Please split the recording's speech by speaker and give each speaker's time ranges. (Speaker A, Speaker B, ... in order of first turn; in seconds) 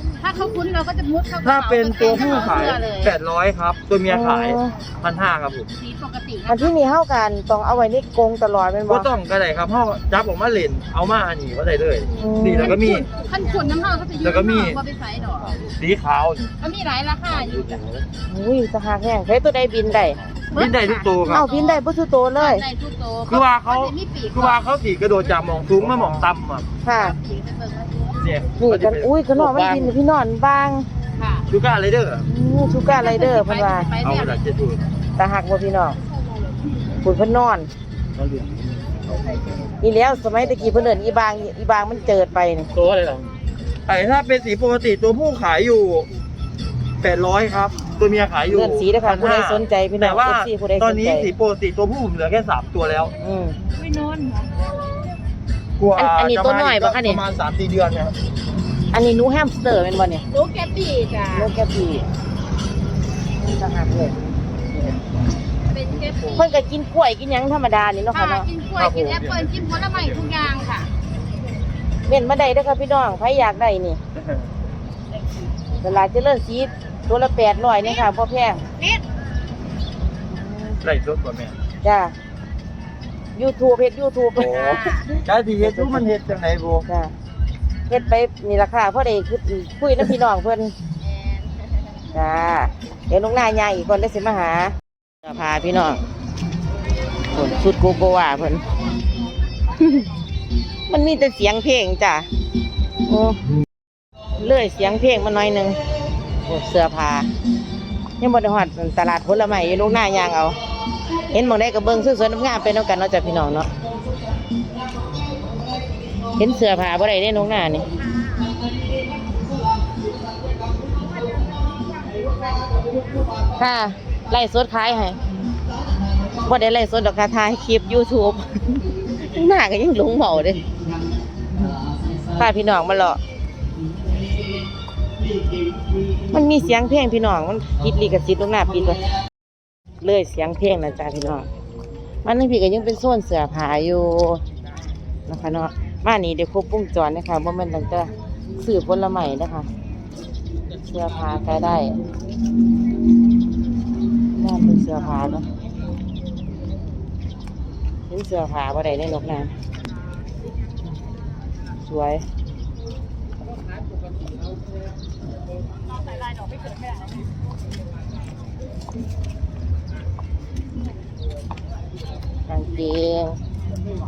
Speaker A: 0.2-3.1, 5.8-6.7, 12.6-15.6, 16.6-17.8, 20.5-21.8, 22.4-24.6, 26.9-28.2, 31.1-31.5, 32.9-34.4, 53.6-54.7, 60.3-61.5, 65.7-66.5, 68.1-70.9, 78.8-79.0, 84.3-85.1, 91.1-91.5, 165.9-167.2
Speaker B: 1.4-5.7, 8.9-13.1, 14.2-14.8, 15.7-16.5, 17.4-18.0, 20.5-21.5, 23.3-26.7, 28.2-29.9, 31.5-32.2, 34.0-34.9, 38.1-38.6, 42.7-43.3, 43.9-46.1, 47.0-53.1, 55.8-58.1, 68.8-69.5, 80.8-81.6, 85.2-86.8
Speaker C: 4.1-4.8, 6.5-9.1, 12.2-12.8, 18.3-20.2, 21.2-22.6, 26.8-27.1, 28.6-30.9, 32.3-33.9, 35.2-36.0, 37.0-37.7, 39.8-42.7, 48.5-51.3, 53.2-53.6, 55.9-57.2, 58.9-60.2, 61.3-62.1, 63.4-64.1, 66.3-68.5, 72.1-74.0, 75.8-78.6, 80.3-80.8, 81.8-82.1, 83.3-86.1, 86.9-87.1, 87.9-90.7, 92.1-96.0, 97.3-98.6, 99.7-100.1, 100.9-102.3, 103.0-103.5, 104.4-105.8, 106.4-107.3, 108.2-110.6, 111.3-113.7, 116.3-117.9, 123.6-125.2, 126.4-130.6, 132.3-133.2, 136.3-139.0, 140.0-141.5, 142.2-144.4, 145.3-149.7, 150.8-151.9, 154.3-155.4, 158.1-159.5, 161.8-162.2, 172.5-173.4